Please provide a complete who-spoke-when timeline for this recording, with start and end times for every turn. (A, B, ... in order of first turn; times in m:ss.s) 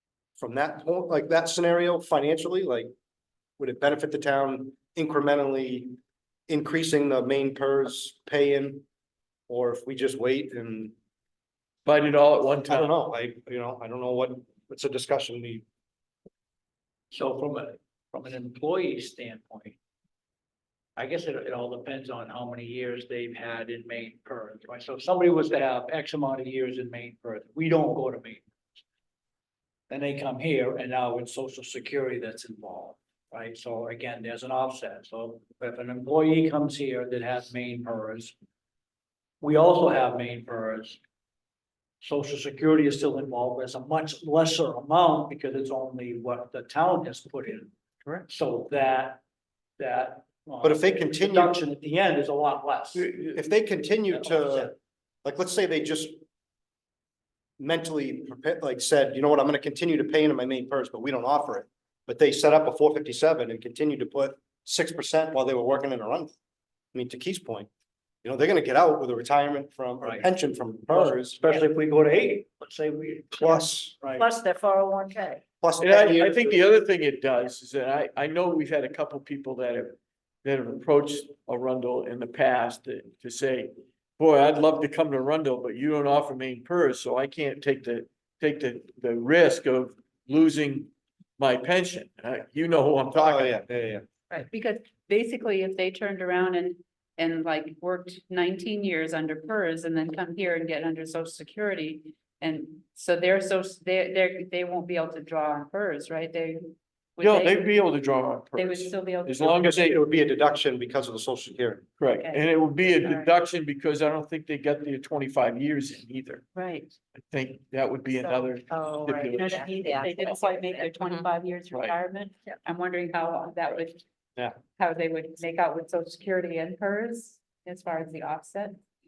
0:00.4-0:02.9 A
0:03.6-0:06.0 A
0:06.5-0:08.8 A
0:09.5-0:10.9 A
0:11.8-0:12.9 B
0:12.7-0:15.6 A
0:17.1-0:19.8 C
0:21.0-0:28.4 C
0:29.9-0:38.3 C
0:39.4-0:41.0 C
0:42.0-0:49.2 C
0:49.8-0:53.5 C
0:50.6-0:51.6 A
0:53.3-0:56.2 A
0:54.1-0:54.7 C
0:57.6-1:06.3 A
1:06.9-1:07.7 A
1:08.2-1:11.4 A
1:10.0-1:10.2 C
1:10.9-1:14.3 C
1:13.3-1:13.9 A
1:14.2-1:15.4 D
1:15.6-1:16.6 A
1:15.8-1:33.5 B
1:33.1-1:34.0 A
1:34.3-1:47.6 E
1:47.2-1:50.0 B
1:48.6-1:49.8 E
1:49.4-1:51.8 A
1:52.0-1:56.4 B
1:52.3-1:53.3 E
1:56.6-1:56.9 E
1:57.3-2:00.5 B
1:58.7-2:01.3 D
1:59.1-2:04.0 E
2:01.7-2:02.0 B
2:04.7-2:08.8 E